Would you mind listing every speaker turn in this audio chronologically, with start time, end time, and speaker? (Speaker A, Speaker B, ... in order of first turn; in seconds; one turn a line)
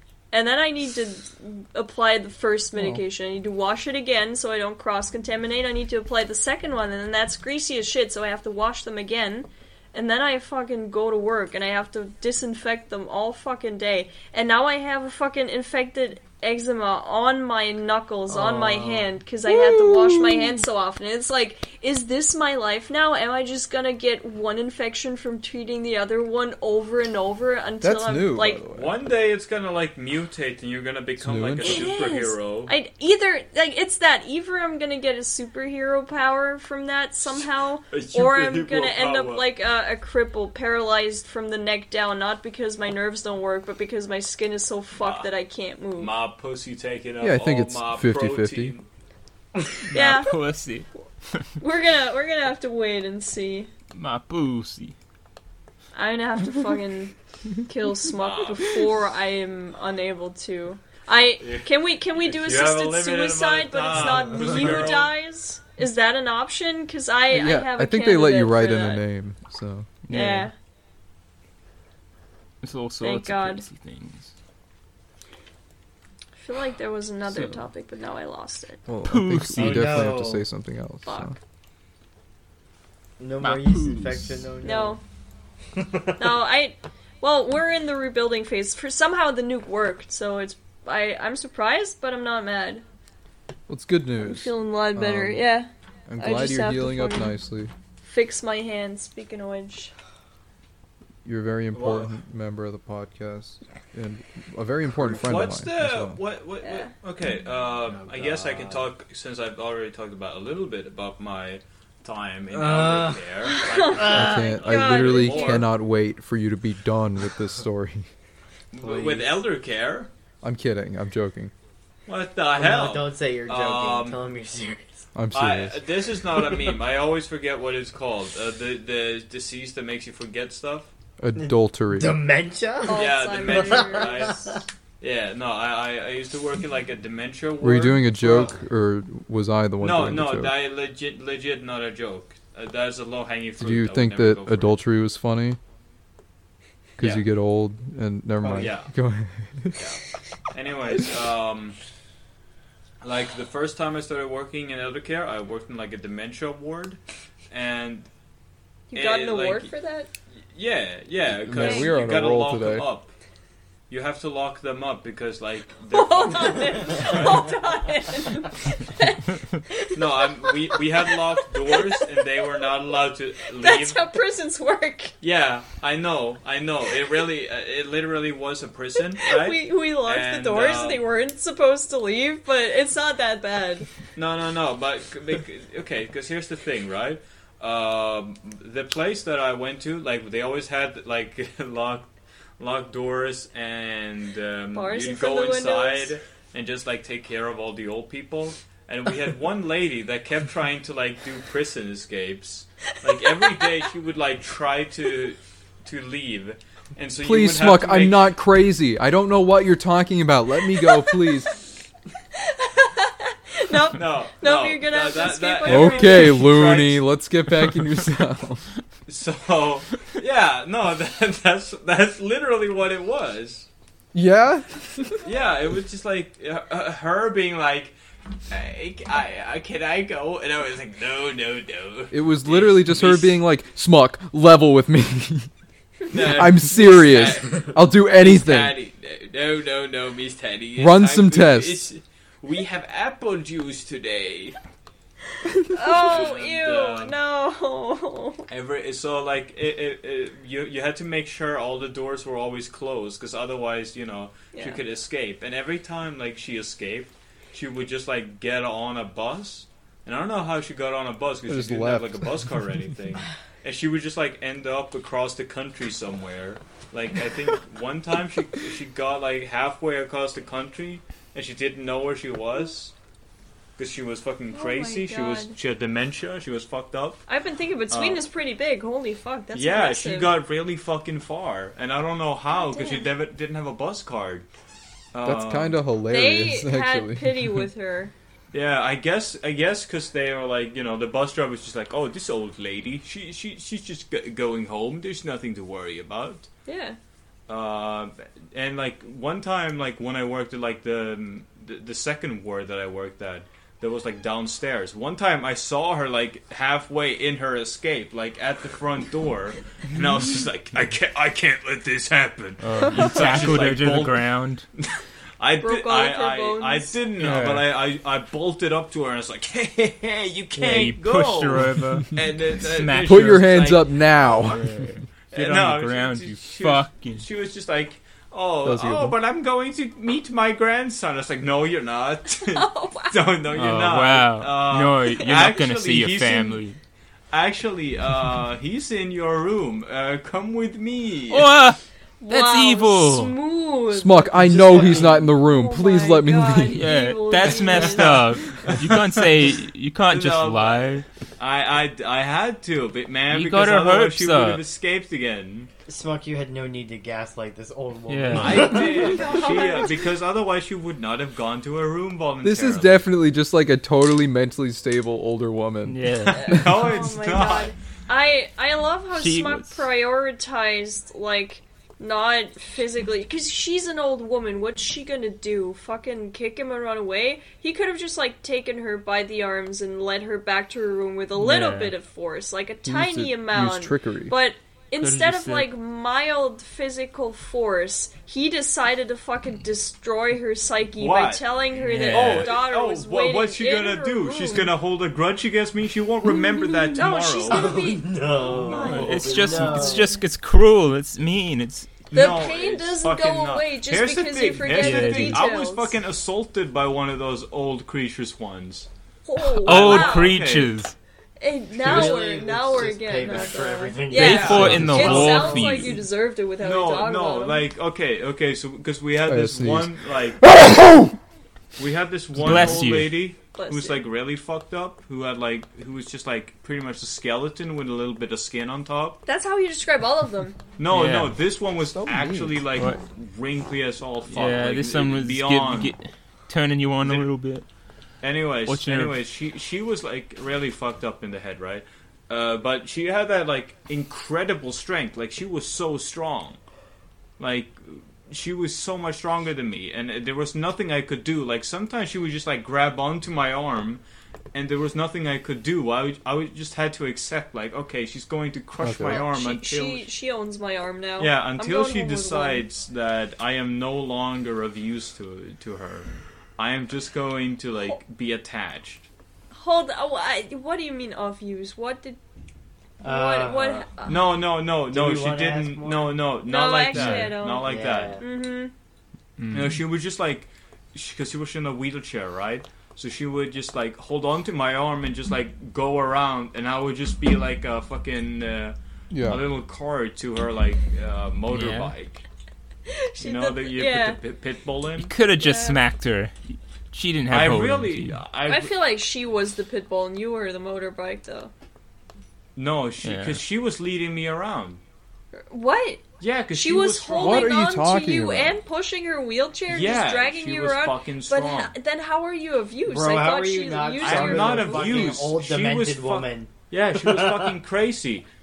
Speaker A: 0.3-28.6
Speaker B: 2.8-3.0
Speaker C: 18.3-19.1
Speaker B: 19.4-20.6
Speaker B: 27.8-28.9
Speaker D: 28.7-32.7
Speaker B: 31.2-31.8
Speaker A: 31.6-46.1
Speaker D: 37.9-39.5
Speaker D: 45.0-45.3
Speaker D: 46.0-48.9
Speaker B: 47.2-48.8
Speaker E: 49.9-51.5
Speaker A: 49.9-50.4
Speaker A: 51.6-53.7
Speaker E: 53.9-55.0
Speaker A: 56.0-69.0
Speaker D: 58.2-58.9
Speaker D: 61.4-65.1
Speaker B: 67.3-69.9
Speaker E: 70.1-70.5
Speaker A: 70.1-70.5
Speaker E: 72.6-74.3
Speaker A: 73.0-73.7
Speaker A: 76.4-78.8
Speaker E: 77.3-77.6
Speaker B: 78.9-81.4
Speaker E: 79.1-80.1
Speaker C: 79.6-80.5
Speaker A: 81.1-81.4
Speaker C: 83.2-85.0
Speaker E: 83.4-84.4
Speaker A: 84.6-85.0
Speaker C: 85.8-86.2
Speaker A: 86.2-92.8
Speaker B: 93.7-95.5
Speaker A: 94.2-97.4
Speaker B: 96.1-97.7
Speaker A: 98.0-99.9
Speaker B: 101.2-106.2
Speaker D: 101.7-102.1
Speaker D: 105.0-115.7
Speaker A: 106.6-106.9
Speaker C: 107.8-108.9
Speaker C: 112.5-113.3
Speaker A: 113.4-115.7
Speaker C: 114.0-114.3
Speaker B: 114.0-118.1
Speaker D: 118.7-120.1
Speaker C: 118.8-119.4
Speaker B: 120.4-121.5
Speaker D: 122.1-124.2
Speaker C: 122.5-125.1
Speaker B: 125.2-125.8
Speaker D: 125.3-130.9
Speaker B: 131.2-132.2
Speaker C: 131.4-134.5
Speaker A: 132.8-134.6
Speaker D: 132.9-138.5
Speaker B: 137.6-140.6
Speaker D: 139.8-144.8
Speaker B: 143.6-145.6
Speaker B: 147.0-149.9
Speaker D: 147.0-147.3
Speaker C: 148.4-148.7
Speaker D: 148.6-148.9
Speaker D: 149.8-150.0
Speaker D: 150.5-151.8
Speaker D: 153.0-157.0
Speaker D: 157.5-158.1
Speaker A: 158.9-160.1
Speaker D: 158.9-159.7
Speaker D: 160.4-163.1
Speaker B: 161.4-162.9
Speaker A: 161.5-161.9
Speaker D: 163.9-167.6
Speaker A: 165.9-172.1
Speaker D: 169.9-174.1
Speaker A: 173.5-175.1
Speaker D: 175.2-181.0
Speaker A: 179.2-183.9
Speaker D: 184.2-208.3
Speaker A: 194.7-196.2
Speaker A: 203.4-203.7
Speaker B: 207.2-211.5
Speaker A: 212.3-216.6
Speaker D: 213.9-217.1
Speaker B: 215.7-218.7
Speaker D: 219.1-223.7
Speaker B: 224.1-225.2
Speaker D: 225.2-228.0
Speaker D: 228.5-233.4
Speaker B: 232.1-235.5
Speaker D: 236.1-244.6
Speaker B: 236.1-238.8
Speaker B: 240.8-241.8
Speaker A: 245.7-248.5
Speaker D: 245.8-247.2
Speaker D: 248.5-272.9
Speaker A: 254.5-254.8
Speaker B: 261.5-262.4
Speaker D: 273.8-277.2
Speaker A: 274.5-275.6
Speaker A: 277.3-280.3
Speaker D: 277.9-278.2
Speaker D: 279.5-284.5
Speaker A: 282.5-283.1
Speaker D: 285.1-285.8
Speaker B: 285.2-287.7
Speaker A: 286.1-288.1
Speaker D: 288.5-296.5
Speaker A: 296.7-297.0
Speaker D: 297.5-314.3
Speaker E: 312.6-314.7
Speaker D: 314.8-324.6
Speaker A: 315.6-317.0
Speaker E: 317.2-317.7
Speaker E: 320.6-323.6
Speaker B: 323.0-324.6
Speaker E: 324.4-327.3
Speaker D: 325.3-336.6
Speaker B: 328.6-329.2
Speaker A: 332.5-333.3
Speaker E: 333.5-336.8
Speaker D: 337.3-341.5
Speaker E: 341.3-343.3
Speaker A: 342.2-348.3
Speaker B: 343.9-346.8
Speaker D: 344.4-345.3
Speaker E: 346.7-351.1
Speaker D: 347.4-349.3
Speaker D: 350.1-355.7
Speaker E: 353.3-354.6
Speaker C: 355.9-359.6
Speaker E: 358.1-358.9
Speaker D: 358.3-363.0
Speaker A: 358.6-360.0
Speaker B: 362.4-366.5
Speaker E: 365.9-366.6
Speaker D: 366.3-367.8
Speaker A: 366.3-394.7
Speaker E: 369.2-369.8
Speaker E: 381.4-381.9
Speaker B: 382.9-384.3
Speaker E: 385.0-385.7
Speaker D: 391.0-391.4
Speaker E: 391.8-392.6
Speaker D: 392.0-397.8
Speaker A: 396.9-398.2
Speaker C: 397.4-400.2
Speaker D: 398.3-399.9
Speaker E: 398.7-402.0
Speaker D: 402.1-408.9
Speaker A: 402.1-406.0
Speaker E: 404.6-405.4
Speaker A: 409.2-410.4
Speaker E: 409.4-410.9
Speaker D: 409.6-410.7
Speaker A: 411.4-417.7
Speaker C: 411.8-415.9
Speaker D: 411.9-412.2
Speaker E: 414.1-416.0
Speaker D: 414.2-415.8
Speaker B: 414.6-414.9
Speaker D: 416.6-420.4
Speaker B: 419.3-421.2
Speaker D: 421.8-429.2
Speaker E: 422.4-423.2
Speaker A: 423.5-424.1
Speaker A: 429.3-430.6
Speaker D: 430.8-435.9
Speaker E: 430.9-431.4
Speaker B: 431.8-432.6
Speaker E: 434.3-437.6
Speaker D: 437.0-437.3
Speaker D: 438.2-446.6
Speaker E: 438.7-439.2
Speaker D: 447.4-460.1
Speaker B: 458.8-459.2
Speaker A: 459.0-462.7
Speaker D: 461.2-469.1
Speaker A: 469.5-472.2
Speaker A: 473.0-474.4
Speaker C: 473.0-473.9
Speaker D: 474.0-478.2
Speaker C: 474.9-476.2
Speaker A: 476.5-478.7
Speaker E: 476.9-477.3
Speaker C: 477.5-478.2
Speaker E: 479.4-479.8
Speaker D: 479.5-492.2
Speaker B: 489.1-489.4
Speaker E: 491.5-491.9
Speaker A: 492.9-494.2
Speaker D: 493.2-495.1
Speaker E: 495.0-498.2
Speaker A: 495.4-495.8
Speaker D: 497.3-498.7
Speaker A: 498.5-501.5
Speaker D: 502.6-504.8
Speaker E: 503.0-503.4
Speaker A: 505.3-515.2
Speaker D: 506.2-507.6
Speaker B: 507.2-508.6
Speaker D: 509.7-511.7
Speaker C: 512.9-517.6
Speaker D: 514.0-518.3